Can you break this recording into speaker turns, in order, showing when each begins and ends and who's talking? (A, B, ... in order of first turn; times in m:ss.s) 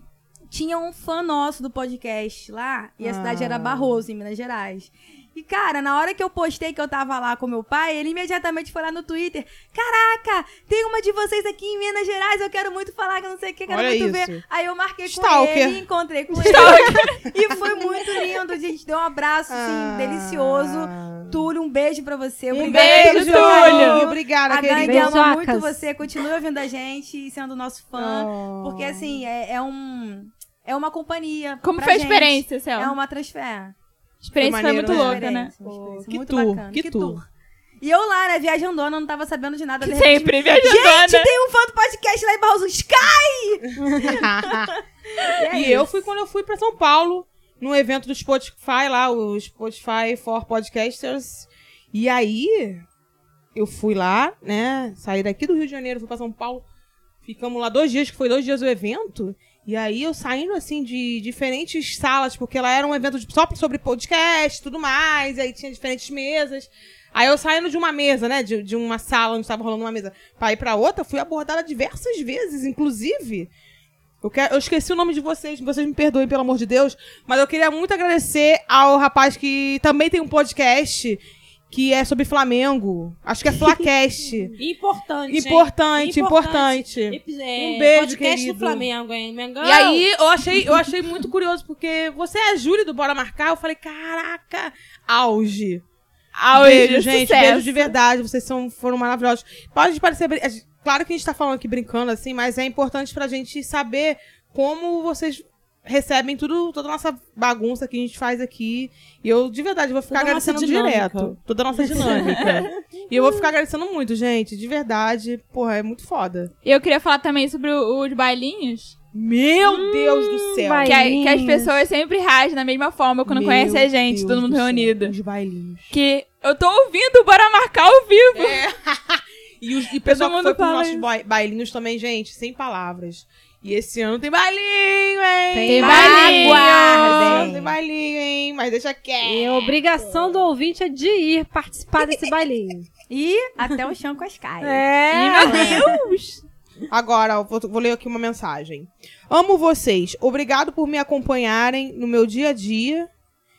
0:00.5-0:33.8 A
0:03.0-0:04.0 B
0:13.7-0:14.4 B
0:15.0-0:15.8 B
0:16.4-0:17.2 C
0:19.5-0:21.4 B
0:22.5-0:25.2 B
0:22.6-0:24.0 C
0:24.7-0:25.8 D
0:28.0-0:29.0 B
0:31.6-0:33.0 C
0:34.2-0:35.5 C
0:34.4-0:37.2 B
0:34.8-0:37.3 A
0:37.8-0:44.3 A
0:39.8-0:41.3 C
0:44.0-0:44.8 B
0:45.2-0:46.1 A
0:45.5-0:52.8 B
0:53.6-0:56.6 B
0:57.2-1:13.5 B
1:14.2-1:24.6 B
1:24.6-1:30.0 E
1:25.3-1:28.9 B
1:29.6-1:30.8 C
1:29.9-1:35.8 B
1:36.4-1:38.0 C
1:36.5-1:56.5 B
1:50.1-1:51.4 E
1:51.9-1:52.6 E
1:56.6-1:59.0 C
1:59.1-2:01.0 B
1:59.6-2:01.8 D
2:00.8-2:05.1 C
2:03.3-2:05.9 B
2:05.9-2:08.6 C
2:08.4-2:20.3 B
2:10.0-2:11.1 C
2:15.5-2:17.1 D
2:15.7-2:17.5 C
2:15.8-2:17.8 A
2:19.2-2:22.9 D
2:23.1-2:24.9 A
2:24.6-2:26.0 D
2:25.1-2:26.4 C
2:26.9-2:33.1 B